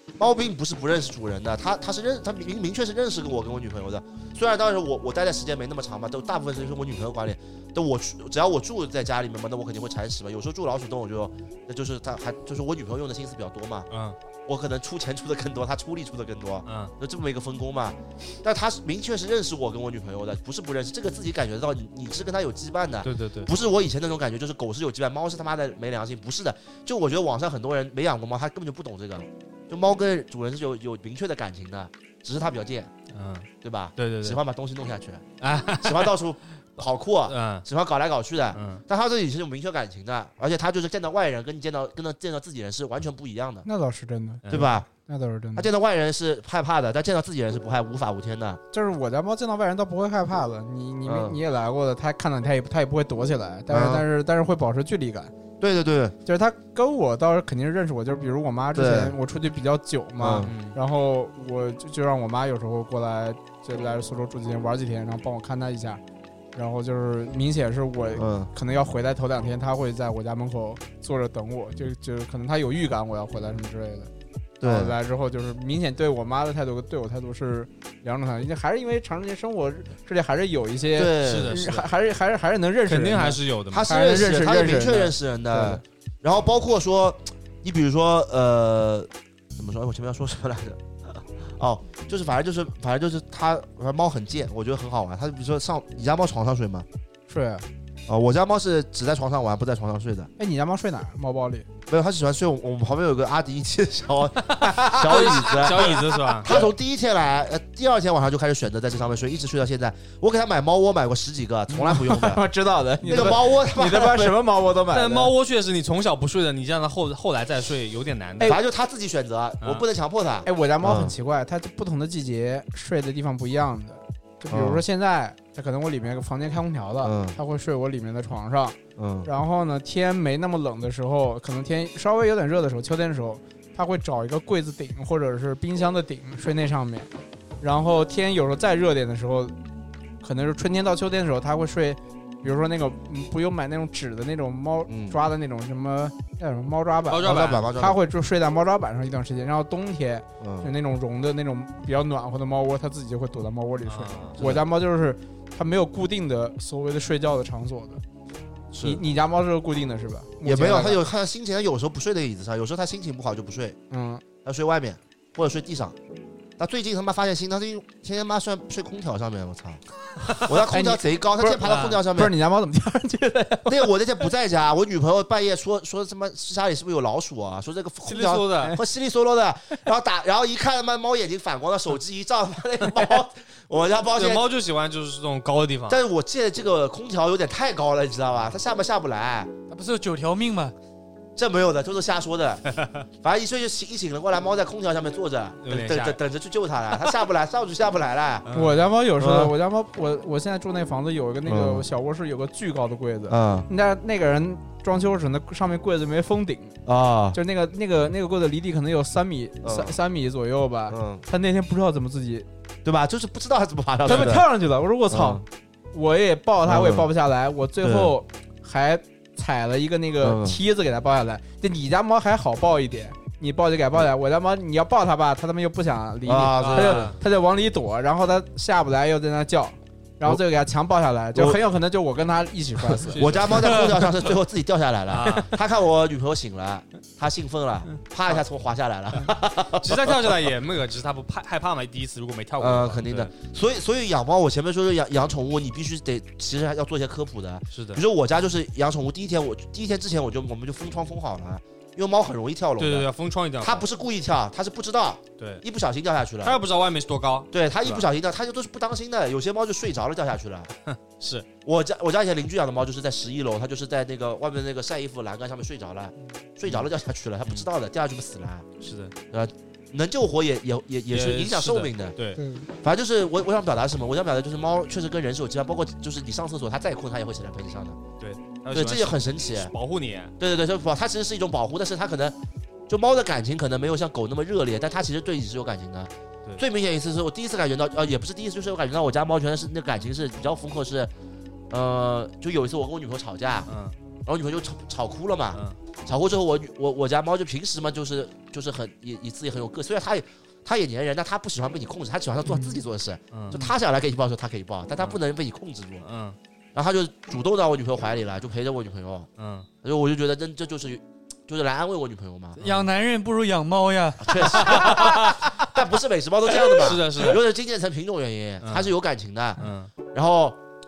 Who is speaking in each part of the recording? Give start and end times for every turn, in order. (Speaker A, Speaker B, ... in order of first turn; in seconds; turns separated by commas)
Speaker A: 0.2-13.9, Speaker B: 13.9-14.2, Speaker A: 14.4-32.9, Speaker B: 16.6-16.9, Speaker B: 23.0-23.5, Speaker B: 33.1-34.4, Speaker A: 33.6-35.2, Speaker B: 35.4-36.1, Speaker A: 35.8-43.7, Speaker B: 37.3-37.6, Speaker B: 38.5-38.8, Speaker C: 43.6-45.7, Speaker B: 44.5-44.7, Speaker A: 44.5-44.9, Speaker A: 45.5-48.6, Speaker C: 48.7-55.3, Speaker A: 51.0-51.4, Speaker A: 53.7-54.0, Speaker A: 55.6-56.1, Speaker C: 56.2-66.0, Speaker A: 58.7-59.1, Speaker A: 60.2-60.5, Speaker B: 60.5-60.8, Speaker C: 66.5-74.1, Speaker A: 68.2-68.5, Speaker A: 74.6-75.0, Speaker C: 74.6-85.8, Speaker A: 80.9-81.6, Speaker B: 81.2-81.9, Speaker B: 82.8-83.9, Speaker A: 83.7-96.8, Speaker C: 97.3-97.7, Speaker A: 98.1-100.3, Speaker C: 100.4-101.7, Speaker A: 101.9-112.4, Speaker C: 104.6-105.9, Speaker B: 104.9-106.7, Speaker C: 111.7-115.3, Speaker A: 113.0-114.4, Speaker B: 114.9-118.6, Speaker A: 118.4-121.1, Speaker C: 120.4-137.1, Speaker A: 124.5-124.8, Speaker A: 127.0-127.3, Speaker A: 129.0-129.3, Speaker C: 137.6-139.5, Speaker C: 140.2-158.0, Speaker A: 144.9-145.2, Speaker B: 147.1-147.7, Speaker A: 147.2-148.0, Speaker A: 150.4-150.7, Speaker B: 153.8-154.4, Speaker A: 158.7-159.0, Speaker C: 158.8-161.0, Speaker A: 160.4-163.8, Speaker C: 163.9-164.2, Speaker A: 164.4-165.9, Speaker A: 166.6-169.8, Speaker A: 170.3-172.3, Speaker C: 170.5-173.9, Speaker B: 171.6-172.0, Speaker A: 173.7-184.4, Speaker B: 178.0-178.8, Speaker B: 184.1-186.0, Speaker A: 185.9-189.5, Speaker D: 189.7-190.7, Speaker A: 191.3-198.4, Speaker B: 195.6-196.2, Speaker B: 198.4-198.8, Speaker C: 198.5-206.8, Speaker A: 199.2-199.5, Speaker A: 201.4-201.8, Speaker A: 203.3-203.7, Speaker A: 206.8-207.4, Speaker C: 207.3-212.5, Speaker A: 209.6-210.0, Speaker A: 210.9-211.2, Speaker A: 212.8-214.5, Speaker C: 214.0-233.5, Speaker B: 214.1-214.3, Speaker A: 215.1-215.4, Speaker A: 216.7-217.1, Speaker A: 217.8-218.1, Speaker A: 220.2-220.6, Speaker A: 226.2-227.1, Speaker B: 226.6-227.2, Speaker A: 232.9-240.2, Speaker B: 233.1-234.1, Speaker B: 235.1-235.5, Speaker B: 239.8-243.3, Speaker A: 242.6-253.1, Speaker B: 247.7-248.0, Speaker B: 252.8-253.8, Speaker A: 253.6-256.6, Speaker B: 255.4-255.6, Speaker B: 256.4-258.1, Speaker A: 257.5-260.7, Speaker B: 260.9-261.5, Speaker A: 261.6-268.7, Speaker B: 266.6-266.9, Speaker B: 268.8-269.1, Speaker A: 269.3-272.1, Speaker B: 271.1-272.4, Speaker C: 272.4-272.7, Speaker A: 272.8-278.0, Speaker B: 278.2-280.3, Speaker A: 278.7-279.7, Speaker A: 280.4-282.4, Speaker A: 282.9-291.1, Speaker A: 291.7-293.7, Speaker B: 293.7-293.9, Speaker A: 294.2-306.0, Speaker C: 302.4-302.8, Speaker B: 303.3-303.6, Speaker B: 306.0-306.4, Speaker A: 306.7-309.3, Speaker B: 309.4-309.7, Speaker A: 309.8-312.6, Speaker B: 312.6-312.8, Speaker D: 312.6-314.7, Speaker A: 314.2-319.6, Speaker B: 314.5-315.3, Speaker B: 316.6-317.4, Speaker B: 318.6-318.9, Speaker B: 319.6-319.9, Speaker A: 320.1-320.6